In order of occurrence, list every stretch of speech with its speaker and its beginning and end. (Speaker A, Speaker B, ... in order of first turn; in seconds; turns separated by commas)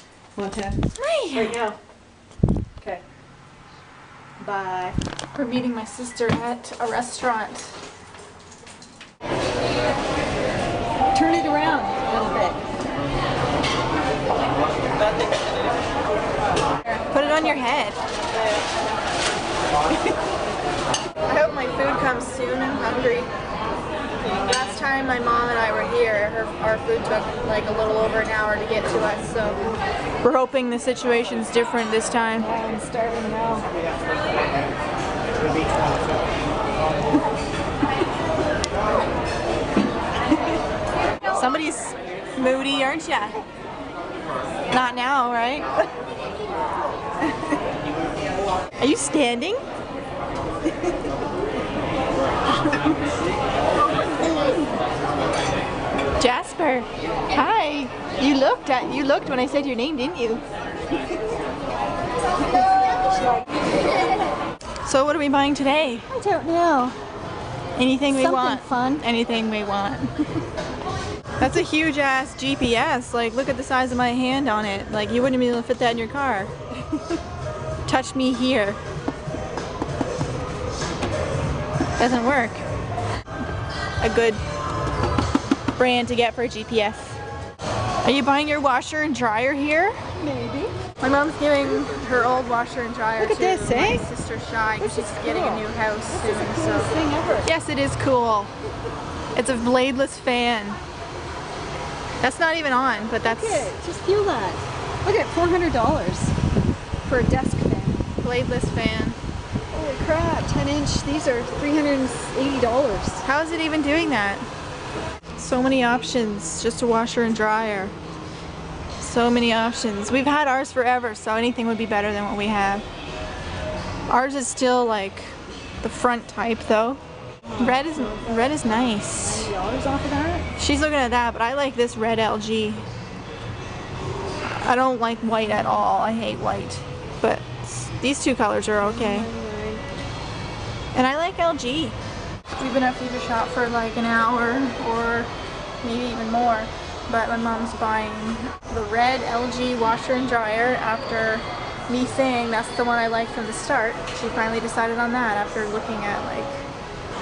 Speaker A: 0.3-0.8, Speaker B: 1.0-1.6, Speaker A: 1.3-1.8, Speaker A: 4.4-5.0, Speaker B: 5.3-7.8, Speaker A: 11.1-12.6, Speaker B: 17.1-18.0, Speaker B: 21.3-23.3, Speaker B: 24.4-29.6, Speaker B: 30.2-32.5, Speaker A: 32.4-33.7, Speaker B: 41.3-43.4, Speaker B: 44.7-45.7, Speaker B: 48.8-49.6, Speaker B: 56.2-60.4, Speaker B: 64.8-66.1, Speaker A: 66.1-67.0, Speaker B: 67.8-70.1, Speaker A: 68.1-69.0, Speaker B: 71.4-76.5, Speaker B: 77.9-78.8, Speaker B: 82.0-82.6, Speaker B: 84.0-84.4, Speaker B: 85.8-87.2, Speaker B: 88.0-90.0, Speaker A: 90.2-90.8, Speaker B: 91.0-98.5, Speaker A: 93.2-94.1, Speaker A: 94.8-97.5, Speaker B: 99.3-100.8, Speaker B: 102.2-103.7, Speaker A: 103.2-106.3, Speaker A: 107.0-108.0, Speaker B: 108.2-109.2, Speaker A: 109.7-113.2, Speaker B: 113.2-114.5, Speaker B: 115.4-117.9, Speaker B: 119.0-122.8, Speaker B: 124.1-127.0, Speaker A: 127.5-130.5, Speaker B: 127.6-129.5, Speaker B: 130.6-132.8, Speaker B: 134.6-139.3, Speaker A: 138.8-139.8, Speaker B: 140.9-142.0, Speaker B: 142.6-145.3, Speaker B: 145.8-156.6